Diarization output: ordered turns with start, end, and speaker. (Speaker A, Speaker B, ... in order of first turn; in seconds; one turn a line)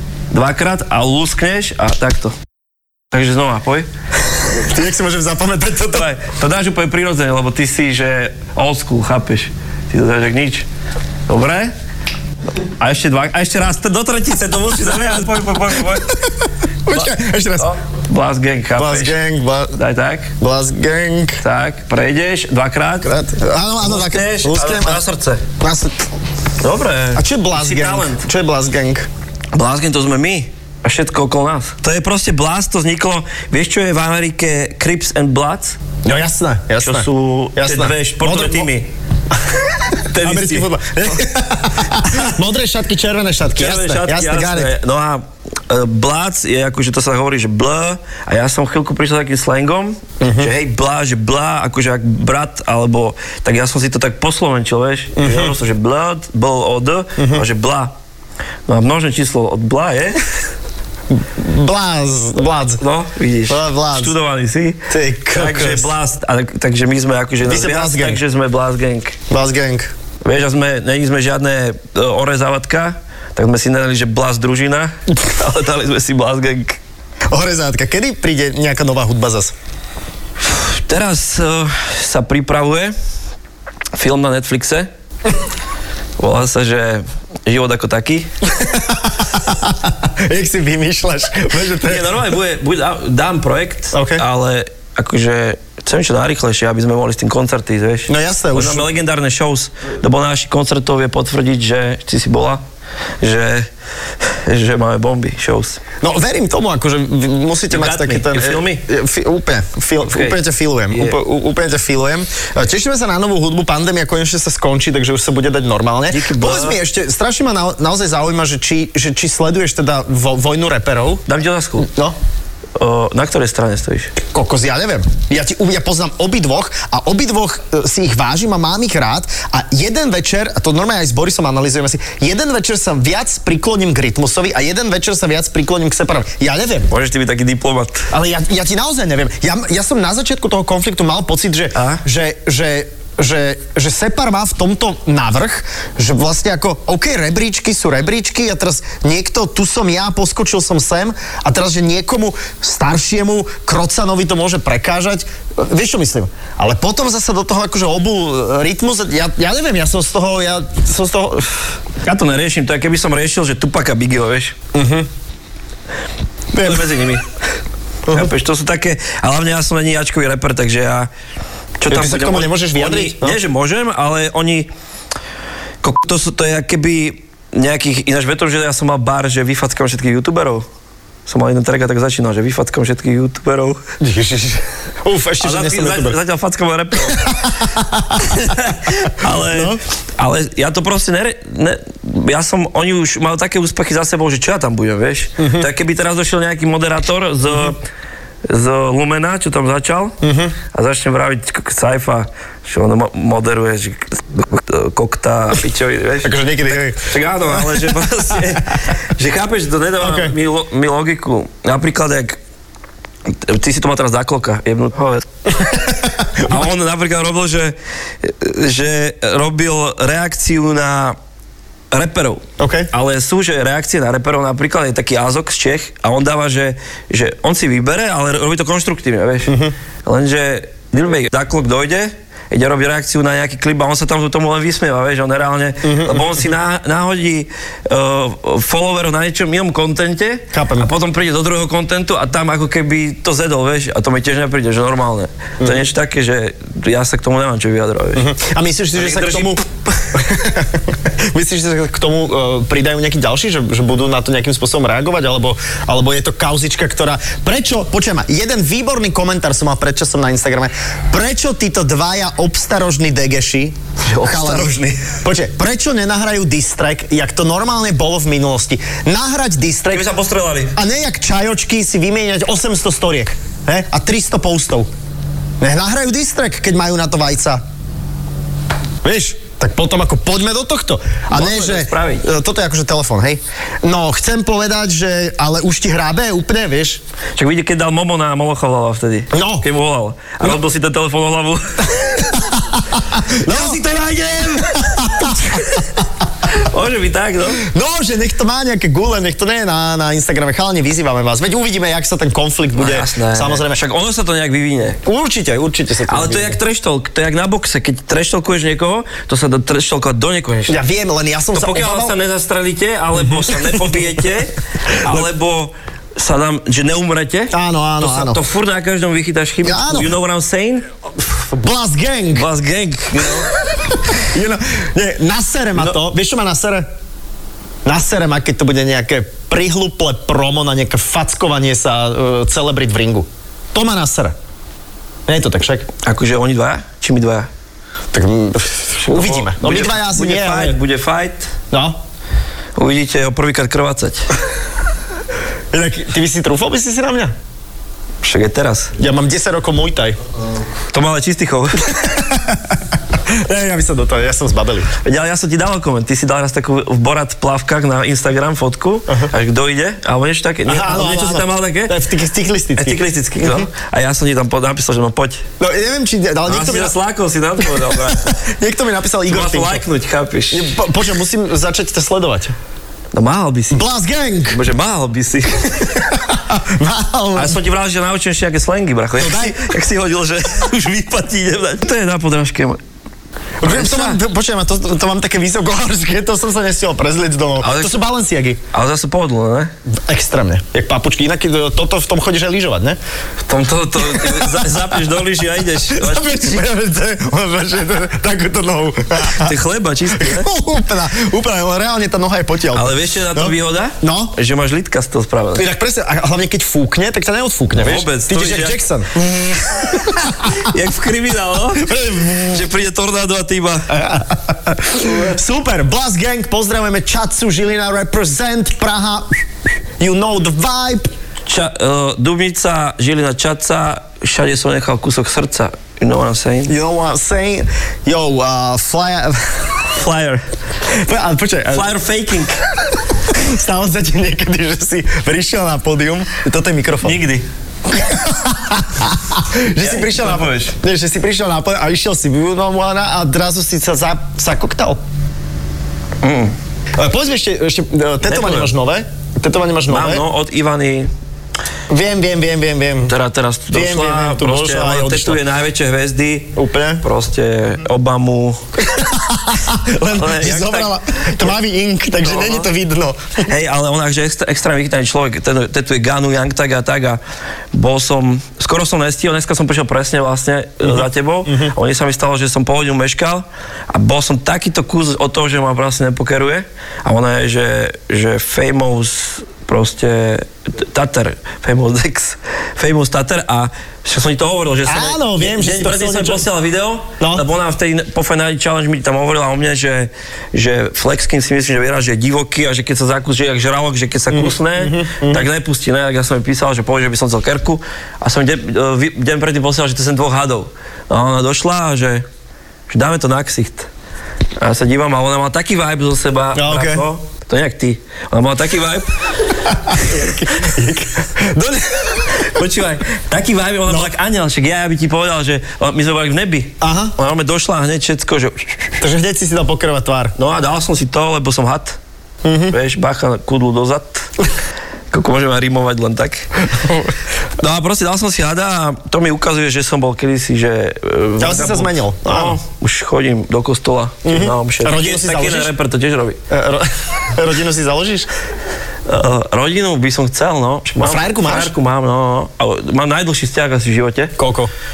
Speaker A: 0.3-2.3
Speaker A: 3.1-3.9
Speaker B: 4.6-6.1
Speaker A: 5.9-10.7
Speaker A: 11.3-11.7
Speaker A: 12.8-16.2
Speaker B: 16.9-17.7
Speaker A: 16.9-19.2
Speaker B: 18.8-19.7
Speaker A: 19.7-20.3
Speaker B: 20.4-21.4
Speaker A: 21.4-23.1
Speaker B: 23.0-25.0
Speaker A: 23.8-25.4
Speaker B: 25.6-26.1
Speaker A: 26.6-28.2
Speaker B: 27.1-29.1
Speaker A: 29.5-35.8
Speaker B: 36.0-38.7
Speaker A: 36.8-38.9
Speaker A: 40.1-40.7
Speaker B: 40.1-44.7
Speaker A: 42.0-42.3
Speaker A: 43.5-57.9
Speaker B: 50.2-50.5
Speaker B: 55.1-55.5
Speaker B: 57.2-57.4
Speaker A: 58.7-60.2
Speaker B: 61.1-62.8
Speaker A: 62.8-69.2
Speaker B: 63.5-64.1
Speaker B: 64.9-65.9
Speaker B: 67.4-68.2
Speaker B: 69.3-69.9
Speaker A: 70.2-76.8
Speaker B: 77.3-79.5
Speaker A: 80.4-82.9
Speaker A: 83.9-84.9
Speaker A: 86.2-88.3
Speaker B: 88.5-92.1
Speaker A: 91.8-102.6
Speaker B: 93.9-94.2
Speaker B: 98.1-98.9
Speaker A: 103.2-103.7
Speaker A: 104.4-105.8
Speaker B: 106.0-121.2
Speaker A: 107.7-108.8
Speaker A: 110.0-110.4
Speaker A: 110.9-111.2
Speaker A: 116.1-116.8
Speaker A: 121.2-121.9
Speaker B: 121.8-122.2
Speaker A: 122.8-124.1
Speaker B: 124.2-136.9
Speaker A: 136.9-138.1
Speaker B: 138.1-161.6
Speaker A: 141.7-142.0
Speaker A: 162.0-164.6
Speaker B: 164.7-165.1
Speaker B: 166.5-167.0
Speaker A: 166.6-167.2
Speaker A: 168.1-171.1
Speaker A: 171.8-174.7
Speaker B: 171.9-173.4
Speaker A: 175.8-180.7
Speaker A: 181.2-183.8
Speaker B: 184.0-186.2
Speaker A: 185.4-187.6
Speaker B: 187.0-188.5
Speaker A: 188.2-197.8
Speaker B: 189.5-189.8
Speaker B: 195.4-195.7
Speaker A: 198.5-200.2
Speaker B: 200.2-200.5
Speaker A: 200.7-212.4
Speaker B: 206.2-207.9
Speaker B: 210.0-210.3
Speaker A: 213.3-215.7
Speaker B: 215.7-216.5
Speaker A: 216.4-221.2
Speaker A: 221.9-248.3
Speaker B: 222.6-222.9
Speaker B: 229.5-229.7
Speaker B: 235.8-236.5
Speaker B: 240.5-240.9
Speaker B: 248.1-270.1
Speaker A: 248.9-249.6
Speaker A: 264.0-265.2
Speaker A: 269.9-270.8
Speaker B: 270.7-274.9
Speaker B: 275.6-277.6
Speaker B: 279.0-287.0
Speaker A: 281.3-282.2
Speaker A: 287.4-292.3
Speaker B: 289.3-289.6
Speaker B: 292.2-293.8
Speaker A: 293.4-297.6
Speaker B: 294.8-295.6
Speaker B: 297.6-303.8
Speaker A: 302.8-305.0
Speaker B: 305.0-306.6
Speaker A: 306.1-310.8
Speaker B: 310.7-312.1
Speaker A: 311.5-320.8
Speaker B: 313.2-313.9
Speaker B: 317.5-318.4
Speaker B: 319.6-320.1
Speaker B: 321.5-322.4
Speaker A: 322.3-323.5
Speaker B: 323.5-326.9
Speaker B: 327.8-334.3
Speaker B: 335.3-335.9
Speaker A: 336.0-337.5
Speaker B: 338.1-340.8
Speaker A: 339.0-341.5
Speaker B: 341.7-342.0
Speaker A: 342.8-344.3
Speaker B: 345.7-347.3
Speaker A: 348.2-348.9
Speaker B: 349.0-350.2
Speaker A: 350.9-352.1
Speaker B: 351.9-354.9
Speaker A: 355.0-361.9
Speaker B: 360.6-363.7
Speaker A: 362.8-365.4
Speaker B: 365.6-366.9
Speaker A: 366.5-368.4
Speaker B: 367.6-369.8
Speaker A: 369.3-370.7
Speaker B: 370.5-372.5
Speaker A: 373.1-373.8
Speaker B: 373.7-374.6
Speaker A: 374.5-376.0
Speaker B: 375.8-377.6
Speaker A: 377.4-382.8
Speaker B: 379.2-379.7
Speaker B: 383.6-388.6
Speaker A: 383.6-384.2
Speaker A: 387.6-388.0
Speaker A: 388.7-389.7
Speaker B: 390.1-393.0
Speaker A: 393.4-396.6
Speaker B: 394.1-394.8
Speaker B: 395.8-399.5
Speaker A: 399.3-400.5
Speaker B: 400.1-404.4
Speaker A: 402.7-405.6
Speaker B: 405.5-409.2
Speaker A: 407.8-408.8
Speaker A: 409.4-413.9
Speaker B: 409.8-410.7
Speaker B: 411.8-412.6
Speaker B: 413.9-419.3
Speaker B: 420.0-421.1
Speaker A: 421.5-426.7
Speaker B: 426.7-429.8
Speaker A: 429.9-430.4
Speaker B: 430.9-431.9
Speaker A: 431.7-432.6
Speaker B: 433.1-437.2
Speaker A: 437.0-437.4
Speaker B: 437.9-445.0
Speaker A: 439.8-440.8
Speaker A: 446.2-446.5
Speaker B: 447.0-450.2
Speaker A: 448.2-448.7
Speaker A: 449.9-451.1
Speaker B: 451.9-453.1
Speaker A: 453.1-458.7
Speaker B: 453.7-455.4
Speaker B: 456.6-457.0
Speaker B: 458.8-463.4
Speaker A: 460.1-461.5
Speaker A: 462.2-462.7
Speaker A: 463.4-467.2
Speaker A: 467.7-502.2
Speaker B: 470.9-471.7
Speaker B: 484.9-486.5
Speaker B: 487.2-487.4
Speaker B: 494.3-495.5
Speaker A: 502.9-503.9
Speaker A: 504.6-510.3
Speaker B: 506.5-507.0
Speaker B: 509.7-512.4
Speaker A: 512.4-518.9
Speaker B: 513.9-514.1
Speaker B: 516.8-517.1
Speaker B: 519.0-520.3
Speaker A: 520.4-522.0
Speaker B: 522.4-522.8
Speaker A: 522.7-524.3
Speaker A: 525.1-526.5
Speaker B: 526.7-527.1
Speaker A: 527.6-536.4
Speaker B: 531.4-532.6
Speaker B: 534.2-535.7
Speaker B: 536.5-538.3
Speaker A: 539.0-544.3
Speaker B: 541.0-541.7
Speaker B: 544.4-544.7